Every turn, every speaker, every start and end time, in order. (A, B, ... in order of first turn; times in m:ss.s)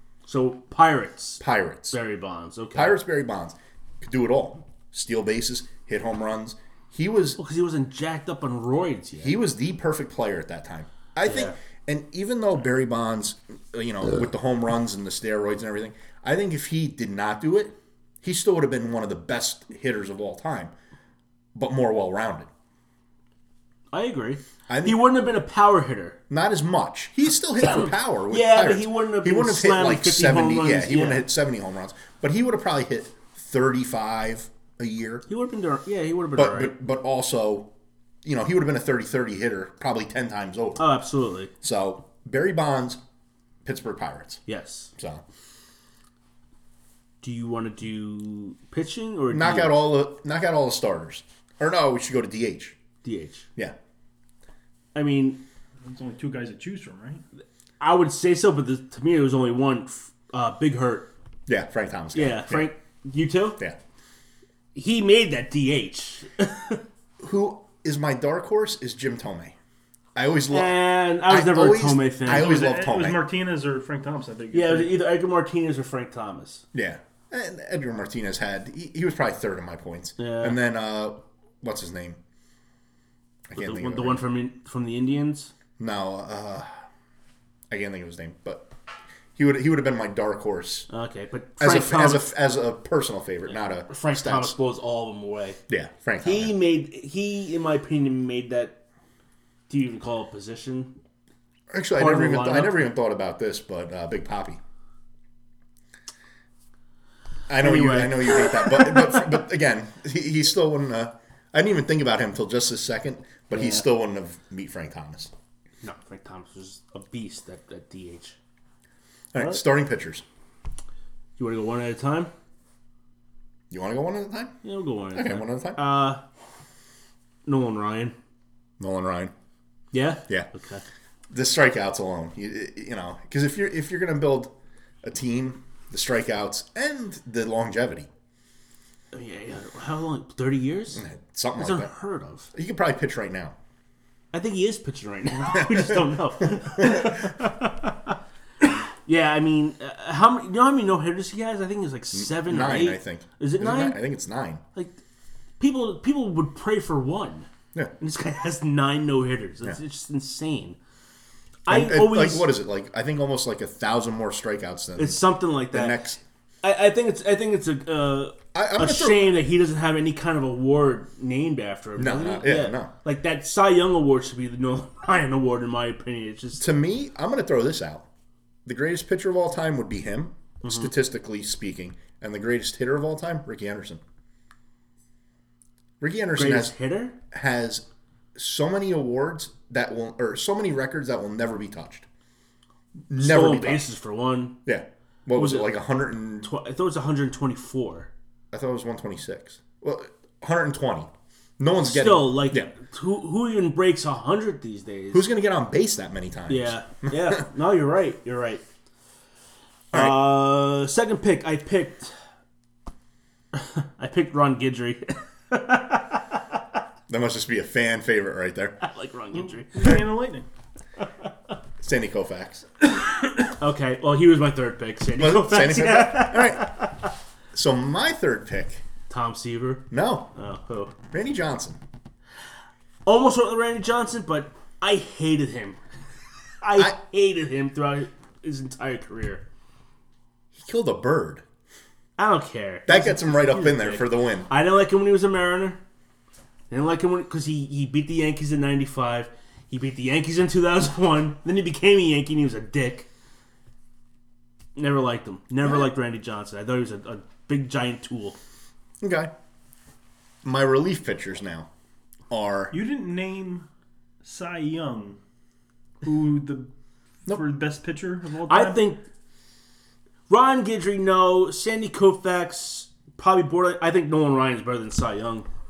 0:00.3-0:03.0 A
0:01.4-0:02.0 B
0:02.7-0:07.4 B
0:07.4-0:09.4 A
0:09.2-0:20.7 B
0:11.2-0:11.6 A
0:21.6-0:22.5 B
0:23.9-0:26.2 A
0:24.7-0:25.1 B
0:26.3-0:35.2 B
0:27.6-0:31.3 A
0:35.3-0:36.8 A
0:36.4-0:37.7 B
0:38.2-0:40.8 B
0:40.8-0:41.5 A
0:41.6-0:43.0 B
0:43.6-0:44.4 B
0:44.5-0:44.9 A
0:45.0-0:45.2 B
0:47.2-0:49.8 A
0:49.3-0:52.8 B
0:53.0-0:53.5 A
0:55.0-0:55.4 A
0:55.8-0:57.2 C
0:57.8-1:01.1 A
1:01.5-1:02.7 B
1:02.1-1:03.6 A
1:04.8-1:06.8 A
1:07.2-1:09.6 B
1:10.2-1:13.2 B
1:10.5-1:12.7 A
1:12.2-1:15.0 C
1:14.5-1:16.6 A
1:16.7-1:22.2 B
1:20.2-1:20.6 A
1:23.5-1:24.3 B
1:23.6-1:25.5 A
1:25.8-1:26.7 B
1:27.7-1:28.7 B
1:29.4-1:30.9 B
1:30.9-1:32.3 A
1:31.6-1:34.6 B
1:33.5-1:35.6 A
1:35.7-1:36.6 B
1:36.2-1:38.8 A
1:39.7-1:40.9 A
1:41.7-1:44.6 B
1:42.0-1:42.9 A
1:47.5-1:55.3 B
1:47.6-1:49.4 A
1:53.5-1:53.8 A
1:55.8-1:58.4 A
1:59.3-2:00.2 B
1:59.4-1:59.6 A
2:01.4-2:02.3 A
2:03.7-2:04.6 B
2:04.6-2:06.2 A
2:05.1-2:05.8 B
2:07.5-2:08.2 A
2:08.8-2:09.3 B
2:09.9-2:10.8 A
2:11.3-2:14.5 B
2:15.0-2:18.1 B
2:19.1-2:21.0 A
2:20.9-2:21.9 B
2:21.6-2:22.5 A
2:22.5-2:23.6 B
2:24.3-2:28.2 A
2:26.7-2:27.2 B
2:29.0-2:34.0 A
2:32.1-2:34.6 B
2:35.6-2:37.5 A
2:38.0-2:40.8 A
2:41.7-2:42.5 A
2:41.7-2:46.2 B
2:45.0-2:46.0 A
2:46.6-2:56.7 A
2:48.5-2:49.4 B
2:52.0-2:52.9 B
2:56.6-2:58.1 B
2:58.6-3:04.0 B
3:00.6-3:00.9 A
3:06.0-3:06.8 B
3:06.4-3:07.2 A
3:07.3-3:12.1 B
3:13.1-3:13.8 B
3:13.2-3:14.6 A
3:14.6-3:16.5 B
3:15.4-3:15.7 A
3:16.4-3:18.1 A
3:18.5-3:22.7 B
3:21.8-3:25.3 A
3:25.1-3:27.4 B
3:26.5-3:28.6 A
3:29.9-3:32.1 A
3:33.5-3:36.4 A
3:37.1-3:38.8 B
3:38.8-3:40.0 A
3:39.7-3:40.5 C
3:41.8-3:42.6 B
3:42.9-3:43.5 C
3:43.6-3:47.1 A
3:45.2-3:46.8 B
3:47.5-3:48.8 B
3:49.1-3:51.0 A
3:49.9-3:50.3 B
3:51.1-3:51.8 B
3:53.1-3:55.8 A
3:56.6-3:59.4 A
4:00.5-4:01.4 B
4:02.2-4:05.8 A
4:02.9-4:04.5 B
4:06.7-4:13.1 A
4:14.8-4:18.4 A
4:19.0-4:19.3 B
4:20.4-4:21.7 B
4:22.3-4:22.8 B
4:22.7-4:23.7 C
4:24.2-4:25.2 C
4:26.0-4:26.7 C
4:27.3-4:28.9 C
4:28.5-4:29.0 A
4:30.3-4:35.5 A